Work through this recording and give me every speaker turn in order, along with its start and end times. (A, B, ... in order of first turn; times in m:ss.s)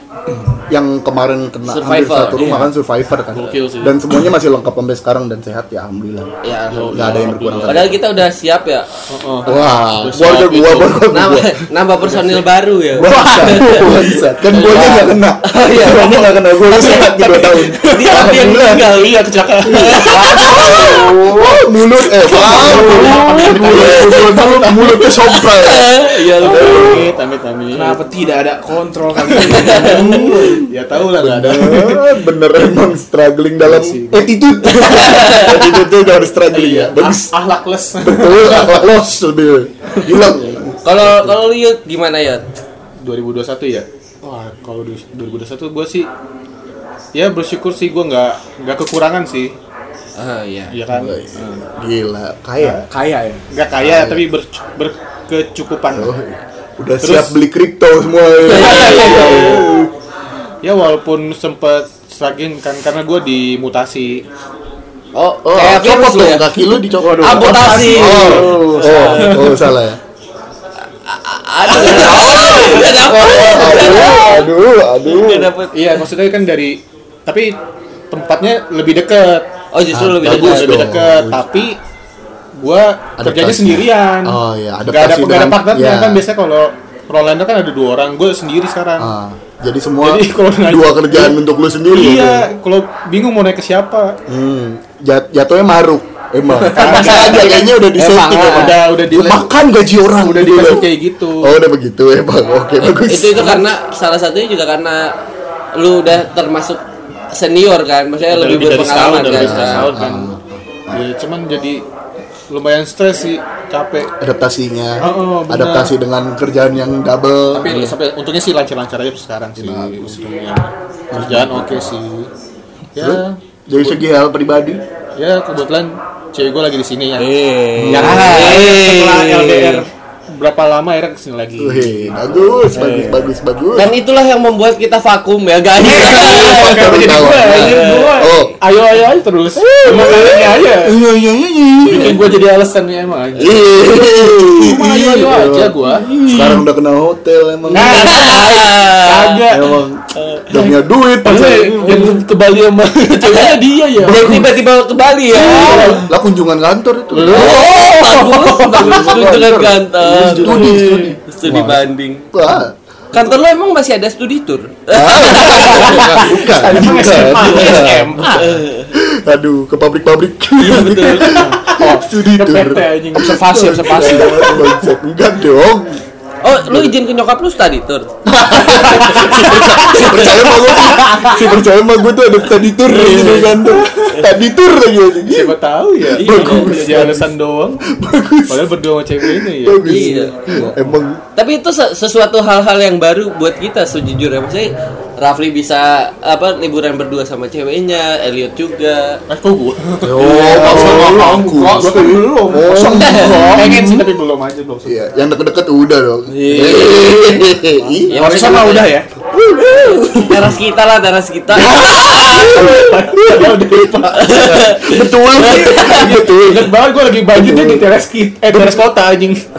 0:00.7-0:06.3 A
0:01.7-0:02.5 B
0:02.4-0:02.7 C
0:03.3-0:04.2 D
0:06.4-0:08.9 B
0:06.7-0:08.0 D
0:06.9-0:08.0 A
0:09.1-0:11.0 D
0:09.4-0:11.6 A
0:11.1-0:13.9 B
0:12.1-0:12.4 D
0:12.9-0:18.9 A
0:13.1-0:13.8 C
0:13.9-0:15.2 D
0:14.5-0:16.3 B
0:15.9-0:21.6 D
0:17.8-0:21.1 B
0:19.7-0:27.1 A
0:22.1-0:25.3 D
0:22.5-0:23.8 C
0:23.0-0:24.4 B
0:25.0-0:27.0 B
0:26.4-0:28.0 D
0:27.7-0:30.3 C
0:29.4-0:32.0 D
0:29.4-0:30.1 B
0:29.7-0:37.3 A
0:33.6-0:34.3 D
0:34.6-0:35.8 B
0:36.5-0:38.9 D
0:38.0-0:41.4 A
0:40.0-0:40.4 D
0:40.8-0:42.4 B
0:43.0-0:46.1 D
0:47.1-0:49.5 D
0:50.2-0:50.8 B
0:50.7-0:51.2 D
0:50.9-0:52.8 A
0:52.9-0:53.4 C
0:53.5-0:56.1 D
0:53.8-0:54.3 A
0:55.9-0:59.9 A
0:57.0-0:57.4 D
0:58.4-0:59.7 B
0:58.6-0:59.7 D
1:00.6-1:04.2 D
1:05.1-1:09.6 B
1:05.4-1:10.0 A
1:07.0-1:09.2 C
1:08.1-1:09.7 D
1:11.0-1:14.5 B
1:11.7-1:12.8 D
1:11.7-1:15.5 A
1:15.0-1:16.0 B
1:15.7-1:17.6 D
1:18.1-1:19.5 D
1:19.7-1:20.9 B
1:19.9-1:21.6 A
1:20.2-1:21.8 D
1:22.6-1:29.1 D
1:23.2-1:26.2 A
1:29.0-1:32.5 A
1:30.0-1:31.4 D
1:31.9-1:34.2 D
1:34.3-1:43.7 A
1:36.6-1:39.5 D
1:36.8-1:37.4 B
1:37.0-1:38.7 C
1:40.2-1:41.6 D
1:42.8-1:45.1 B
1:45.7-1:49.9 B
1:48.3-1:50.3 D
1:49.2-1:51.0 A
1:50.9-1:51.8 D
1:52.5-1:54.1 D
1:54.2-1:57.8 A
1:55.0-1:55.9 D
1:57.5-2:02.3 D
1:57.7-1:57.9 C
1:59.6-2:00.2 A
2:01.1-2:01.9 A
2:02.9-2:04.0 D
2:03.0-2:04.8 A
2:05.2-2:12.6 D
2:07.2-2:08.8 C
2:07.8-2:08.4 A
2:07.9-2:09.6 B
2:11.6-2:13.9 A
2:12.7-2:13.3 C
2:13.7-2:18.3 B
2:15.8-2:21.0 D
2:15.8-2:18.6 A
2:19.6-2:22.3 A
2:21.8-2:26.1 D
2:23.4-2:28.2 A
2:25.9-2:26.6 C
2:27.7-2:29.8 D
2:27.7-2:29.4 B
2:29.5-2:32.2 A
2:30.2-2:30.4 B
2:31.2-2:34.3 D
2:33.1-2:36.0 B
2:34.0-2:34.5 A
2:35.4-2:36.0 D
2:35.4-2:37.9 A
2:37.1-2:39.1 D
2:37.3-2:42.2 B
2:37.6-2:38.5 C
2:38.6-2:42.7 A
2:40.2-2:41.1 D
2:43.1-2:46.3 B
2:44.9-2:56.0 A
2:46.0-2:48.4 C
2:46.4-2:48.4 D
2:48.3-2:48.9 B
2:50.6-2:51.4 B
2:50.8-2:53.2 D
2:51.6-2:54.7 C
2:53.8-2:54.8 D
2:56.4-2:58.1 B
2:56.6-2:56.9 A
2:58.2-3:07.3 A
2:59.8-3:01.0 B
3:02.9-3:03.6 B
3:05.3-3:07.8 D
3:06.1-3:07.0 B
3:07.9-3:11.2 A
3:08.5-3:11.0 D
3:09.8-3:10.3 B
3:11.4-3:19.2 B
3:19.3-3:25.0 D
3:20.0-3:24.1 A
3:20.2-3:22.2 C
3:22.7-3:23.7 C
3:24.8-3:28.1 A
3:26.5-3:27.0 D
3:26.5-3:26.9 C
3:26.6-3:27.2 B
3:28.1-3:28.9 B
3:28.1-3:29.1 C
3:28.1-3:28.9 D
3:29.3-3:30.6 A
3:30.1-3:32.8 B
3:31.5-3:36.7 A
3:32.1-3:34.6 D
3:34.1-3:36.2 B
3:35.4-3:39.4 D
3:37.3-3:37.9 A
3:38.5-3:38.8 A